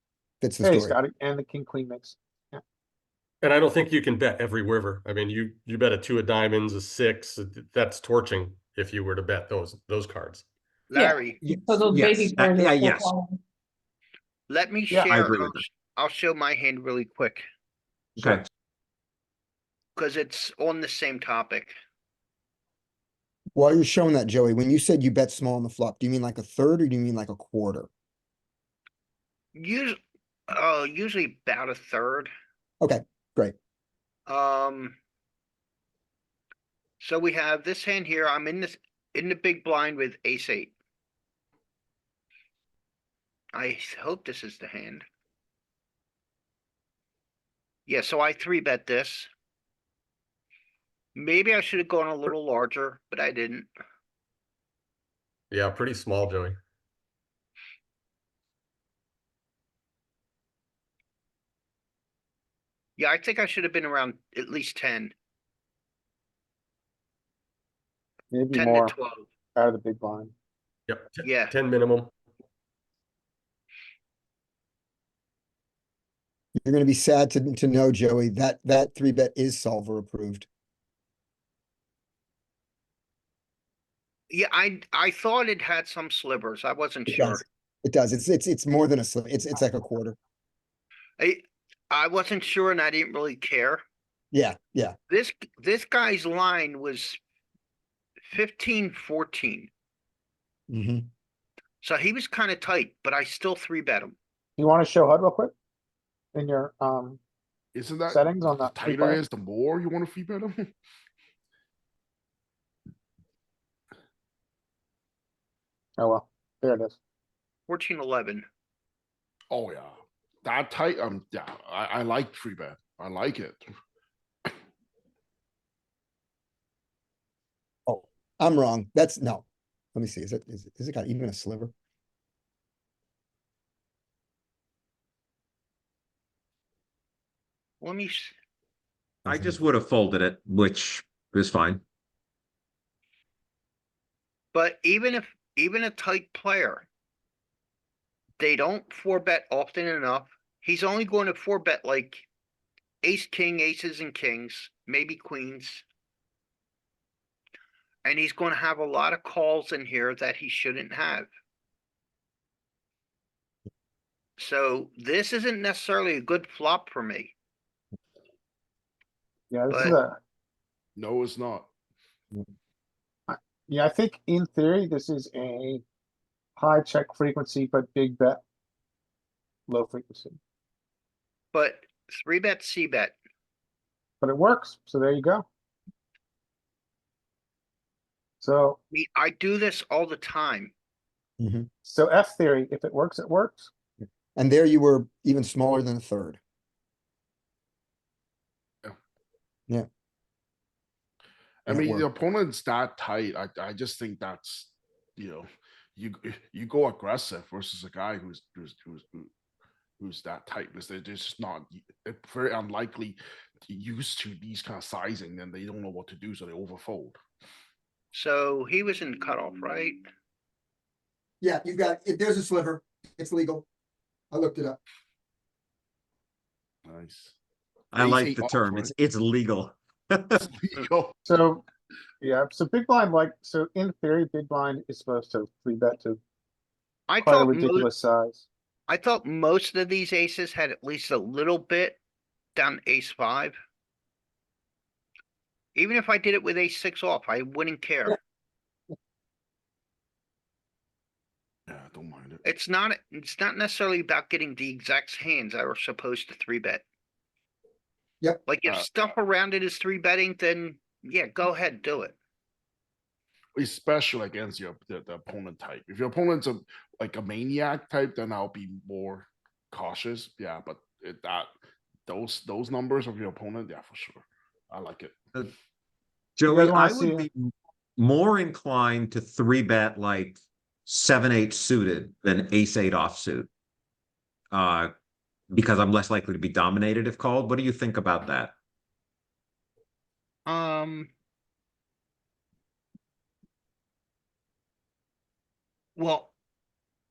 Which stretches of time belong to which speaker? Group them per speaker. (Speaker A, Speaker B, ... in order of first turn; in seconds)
Speaker A: 0.4-1.0, 11.5-11.9, 23.6-27.9, 32.8-33.5, 76.6-80.5, 87.1-90.2, 94.3-95.0, 100.7-101.1, 127.9-131.7, 139.2-139.6, 191.4-191.7, 194.3-196.4, 201.7-202.1, 221.4-223.7, 224.3-224.8
Speaker B: 0.6-2.6, 68.3-68.9, 69.5-70.3, 104.6-105.5, 106.3-107.2, 108.1-109.2, 116.0-117.0, 169.5-170.2, 173.3-175.8, 176.6-178.4, 179.7-180.4, 184.2-185.4, 188.4-188.8, 191.8-193.7, 231.2-231.6, 232.2-236.2, 237.2-238.5, 276.5-277.3
Speaker C: 3.4-10.5, 55.5-56.6, 70.9-72.1
Speaker D: 10.9-11.4, 14.5-17.4, 20.0-21.7, 29.6-30.0, 30.5-32.3, 34.3-35.0, 37.0-40.7, 43.5-45.0, 47.9-49.3, 51.1-53.7, 63.0-65.1, 68.5-69.3, 71.2-71.6, 84.3-87.4, 91.2-93.8, 95.1-97.2, 98.3-99.7, 101.8-104.2, 117.7-118.5, 137.8-138.3, 144.5-146.8, 148.4-152.2, 153.0-155.8, 158.0-161.3, 164.4-167.3, 169.7-170.0, 181.5-183.2, 188.9-190.7, 218.1-220.0, 237.1-237.9, 238.9-242.0, 242.5-243.6, 245.8-248.2, 252.4-256.8, 258.4-262.1, 290.4-291.1, 295.9-296.3
Speaker E: 10.9-13.4
Speaker F: 11.5-13.1, 15.1-15.6, 139.3-141.8, 227.9-230.5, 276.4-283.5, 284.5-284.9, 285.5-288.5
Speaker G: 107.8-110.7, 119.5-123.6, 170.9-171.7, 201.6-209.3, 210.0-217.2, 226.8-227.3, 227.9-228.9, 230.5-231.2, 251.7-252.4, 263.6-271.5, 272.1-275.1